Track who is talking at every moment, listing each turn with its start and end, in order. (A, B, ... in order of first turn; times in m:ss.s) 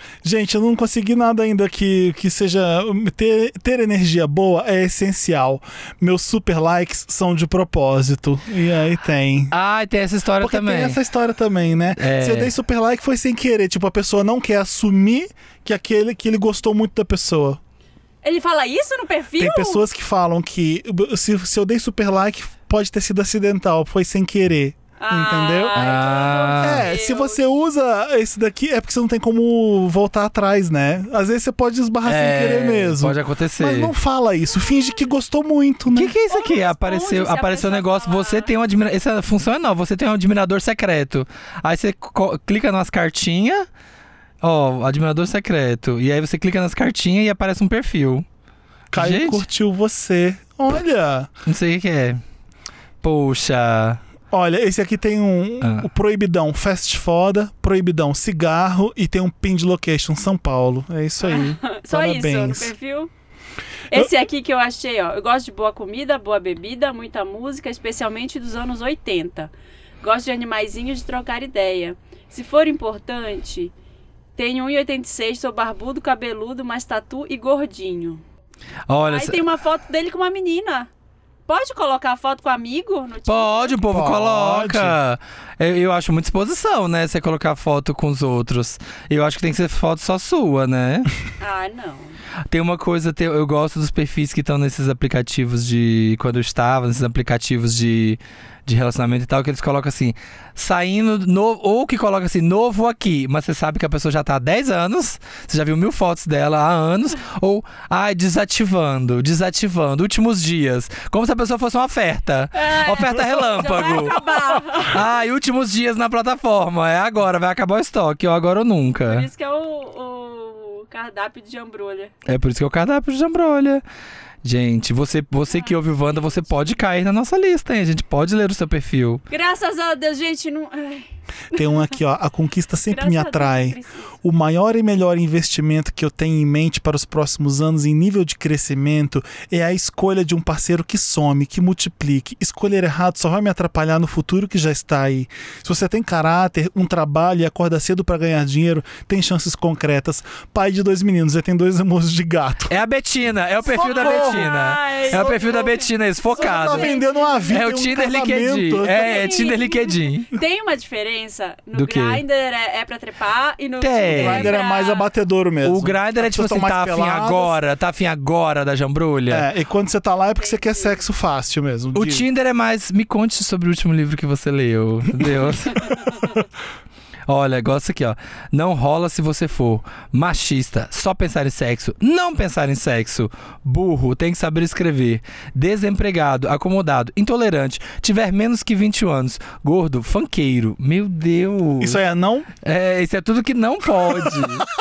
0:00.2-0:09.5 A
0:09.5-0:11.0 B
0:10.4-0:17.6 A
0:12.0-0:12.5 B
0:18.2-0:19.8 C
0:19.4-0:25.8 A
0:25.0-0:27.4 C
0:25.7-0:26.9 B
0:26.6-0:36.1 A
0:32.0-0:33.9 B
0:35.9-0:43.6 B
0:36.3-0:38.5 C
0:44.4-0:48.2 B
0:48.9-0:49.4 B
0:48.9-0:51.3 A
0:51.4-0:52.2 B
0:53.0-0:54.0 B
0:54.3-1:02.7 A
0:55.6-0:55.9 B
1:01.2-1:03.1 C
1:03.9-1:09.5 C
1:10.0-1:13.7 C
1:14.4-1:18.2 C
1:18.9-1:19.4 B
1:19.0-1:20.9 C
1:21.5-1:23.8 C
1:23.3-1:31.1 B
1:23.8-1:25.0 A
1:31.4-1:32.2 C
1:32.5-1:59.3 B
1:52.5-1:55.0 C
1:59.0-2:02.1 C
2:02.2-2:03.8 B
2:04.4-2:09.2 B
2:05.5-2:06.7 C
2:09.3-2:11.8 C
2:11.5-2:32.7 A
2:12.9-2:14.1 C
2:32.7-2:37.0 B
2:33.6-2:35.8 C
2:33.7-2:34.5 A
2:35.1-2:35.7 A
2:36.4-2:39.4 A
2:36.4-2:37.6 C
2:37.5-2:40.3 B
2:38.8-2:45.1 C
2:41.7-2:42.2 B
2:43.8-2:44.5 B
2:44.1-2:47.6 A
2:45.6-2:49.5 B
2:49.3-2:52.2 A
2:50.4-2:51.0 C
2:51.9-2:56.3 B
2:56.0-2:56.3 C
2:57.3-3:12.0 B
3:11.8-3:12.5 A
3:12.6-3:14.7 B
3:14.0-3:14.4 A